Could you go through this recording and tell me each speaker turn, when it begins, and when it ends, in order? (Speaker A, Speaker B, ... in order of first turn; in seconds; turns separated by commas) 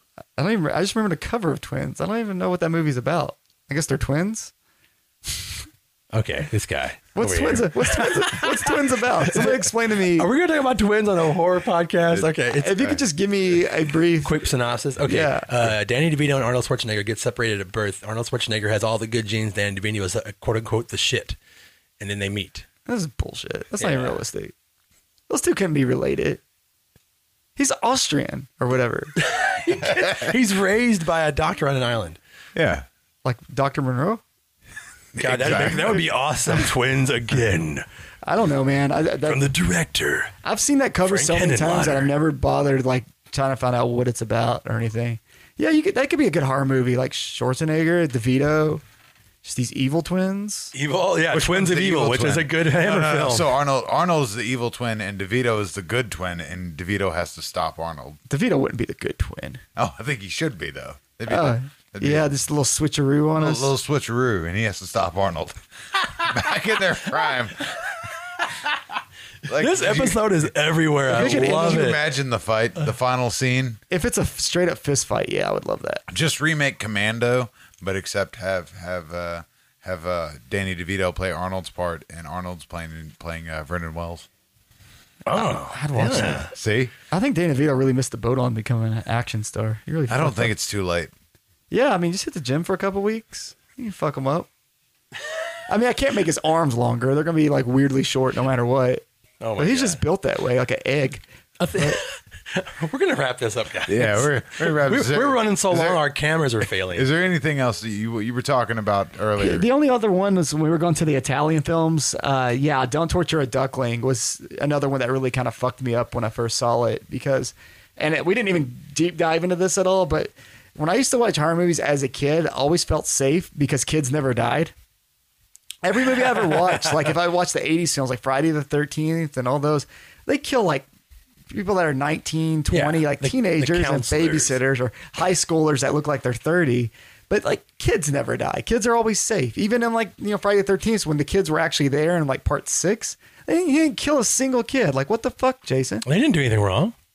Speaker A: 0.4-4.5, Speaker B: 6.1-12.8, Speaker A: 7.2-10.3, Speaker A: 12.5-14.4, Speaker B: 14.2-21.4, Speaker A: 15.1-15.7, Speaker B: 22.0-22.7, Speaker A: 22.9-24.5, Speaker B: 23.8-24.2, Speaker A: 25.3-26.4, Speaker A: 27.6-29.1, Speaker B: 29.2-32.2, Speaker C: 32.5-32.9, Speaker A: 33.2-34.2, Speaker C: 35.1-36.0, Speaker B: 35.2-37.9, Speaker A: 38.2-39.5, Speaker B: 39.3-40.4, Speaker A: 40.4-48.8, Speaker B: 41.0-42.1, Speaker A: 49.4-50.7, Speaker B: 50.7-53.5, Speaker C: 51.3-58.2, Speaker A: 58.3-59.6, Speaker C: 59.8-62.3, Speaker A: 61.3-63.7, Speaker C: 63.4-67.7, Speaker C: 69.5-70.5, Speaker B: 69.5-72.0, Speaker C: 71.1-73.8, Speaker A: 71.1-71.9, Speaker A: 73.9-76.0, Speaker C: 76.1-84.3, Speaker B: 85.3-86.5, Speaker A: 85.3-86.5, Speaker C: 86.5-86.9, Speaker A: 87.1-90.5, Speaker C: 90.1-91.1, Speaker A: 91.7-94.5, Speaker A: 95.7-99.0, Speaker B: 99.4-100.0, Speaker A: 99.6-101.2, Speaker B: 101.6-107.1, Speaker A: 101.8-102.0, Speaker C: 103.9-106.0, Speaker C: 106.9-109.7, Speaker A: 109.4-124.7, Speaker A: 125.8-130.9, Speaker B: 126.7-127.1, Speaker A: 131.5-146.0, Speaker B: 132.7-134.6, Speaker B: 146.1-146.9